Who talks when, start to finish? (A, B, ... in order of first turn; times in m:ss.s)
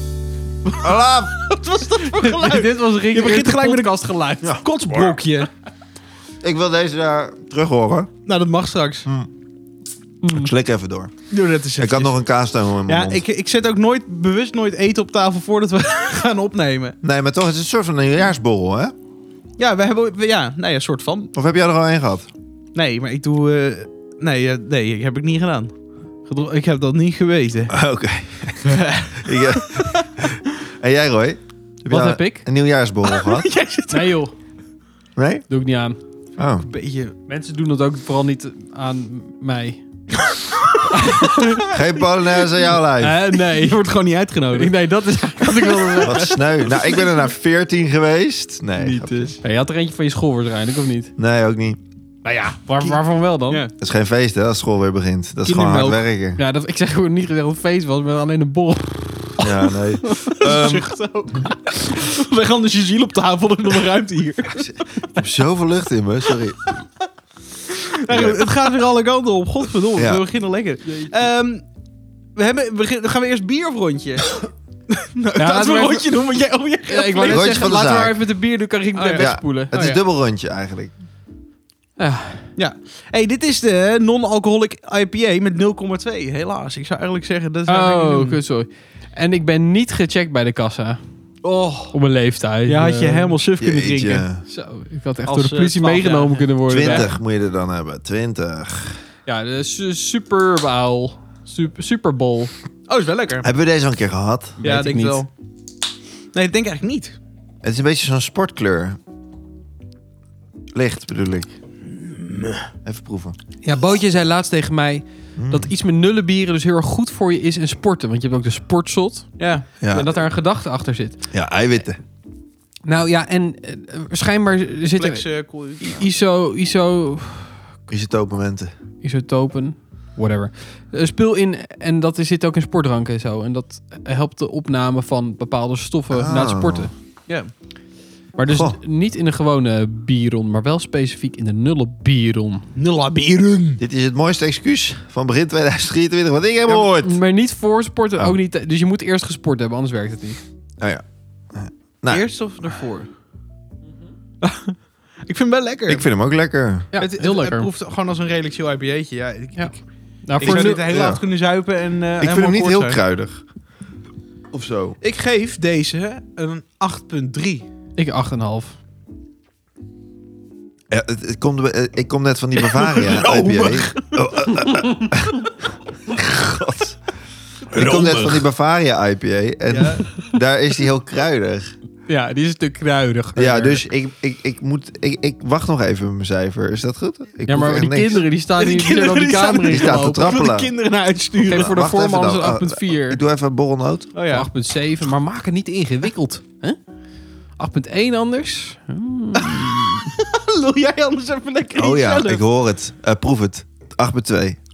0:00.7-0:05.5 A
0:00.8-0:01.4 B
0:02.2-0:04.6 C
0:04.4-0:05.2 B
0:06.4-0:08.1 B
0:08.3-0:09.1 A
0:10.2-0:10.5 C
0:10.3-0:11.1 B
0:11.3-0:12.2 A
0:11.8-0:13.2 B
0:12.9-0:17.0 A
0:17.0-0:18.9 B
0:19.6-0:21.3 A
0:21.4-0:22.3 B
0:22.8-0:25.7 A
0:26.2-0:27.8 A
0:27.7-0:33.5 B
0:28.6-0:30.1 A
0:31.9-0:32.4 C
0:33.0-0:34.2 A
0:33.9-0:34.3 C
0:35.2-0:35.5 B
0:35.5-0:36.0 C
0:36.4-0:36.7 B
0:36.6-0:37.2 A
0:37.3-0:39.8 C
0:40.3-0:40.7 A
0:40.9-0:41.7 C
0:41.3-0:41.8 A
0:41.7-0:43.2 B
0:43.0-0:43.8 C
0:43.4-0:44.7 A
0:44.6-0:46.5 C
0:45.5-0:46.0 A
0:46.0-0:49.3 B
0:46.8-0:47.1 A
0:48.8-0:49.4 A
0:49.4-0:51.1 C
0:51.2-0:51.8 B
0:52.2-0:53.7 C
0:53.5-0:53.7 A
0:53.8-0:56.4 B
0:55.4-0:56.0 A
0:56.4-1:00.7 C
0:59.4-1:00.9 B
1:00.3-1:04.7 A
1:05.1-1:06.6 B
1:07.7-1:11.6 A
1:08.1-1:08.5 B
1:10.0-1:10.2 B
1:12.4-1:17.7 A
1:15.4-1:16.1 C
1:16.9-1:19.7 C
1:17.3-1:18.2 B
1:19.0-1:20.0 A
1:19.2-1:20.9 B
1:22.0-1:22.5 C
1:22.6-1:28.4 A
1:27.7-1:31.0 C
1:31.4-1:32.0 A
1:31.9-1:33.4 C
1:32.7-1:34.3 A
1:33.6-1:34.4 B
1:34.5-1:37.1 C
1:35.3-1:37.1 A
1:36.7-1:39.0 B
1:39.3-1:42.5 C
1:42.9-1:43.5 A
1:43.4-1:44.6 B
1:44.6-1:45.2 C
1:44.6-1:45.3 A
1:46.3-1:47.2 A
1:47.6-1:49.0 B
1:50.7-1:51.5 B
1:52.0-1:52.7 A
1:52.8-1:53.4 B
1:53.6-2:01.2 C
1:55.4-1:55.7 B
1:59.4-1:59.7 A
1:59.8-2:00.1 B
2:01.3-2:02.0 B
2:02.9-2:05.3 C
2:05.0-2:05.9 A
2:05.8-2:07.6 C
2:07.9-2:08.7 B
2:09.0-2:16.9 C
2:16.1-2:16.9 B
2:18.4-2:22.6 C
2:18.5-2:18.8 B
2:22.8-2:23.8 A
2:23.8-2:27.2 B
2:27.0-2:30.4 C
2:30.8-2:32.3 B
2:32.1-2:33.1 A
2:34.4-2:36.1 A
2:35.9-2:36.9 B
2:36.9-2:37.7 C
2:37.0-2:39.8 A
2:40.3-2:40.9 C
2:40.4-2:43.0 A
2:40.4-2:41.2 B
2:42.2-2:43.4 B
2:44.5-2:45.0 B
2:45.0-2:47.6 A
2:48.0-2:48.8 C
2:50.9-2:57.0 B
2:52.6-2:54.3 A
2:57.7-2:58.4 A
2:57.7-3:01.7 B
2:59.7-3:00.2 A
3:02.1-3:03.8 C
3:03.4-3:08.2 B
3:07.5-3:10.4 C
3:08.6-3:11.7 A
3:09.7-3:10.7 B
3:11.4-3:13.2 C
3:11.5-3:14.1 B
3:14.2-3:14.5 A
3:14.3-3:16.8 C
3:17.6-3:20.1 C
3:19.4-3:22.4 A
3:21.8-3:24.6 B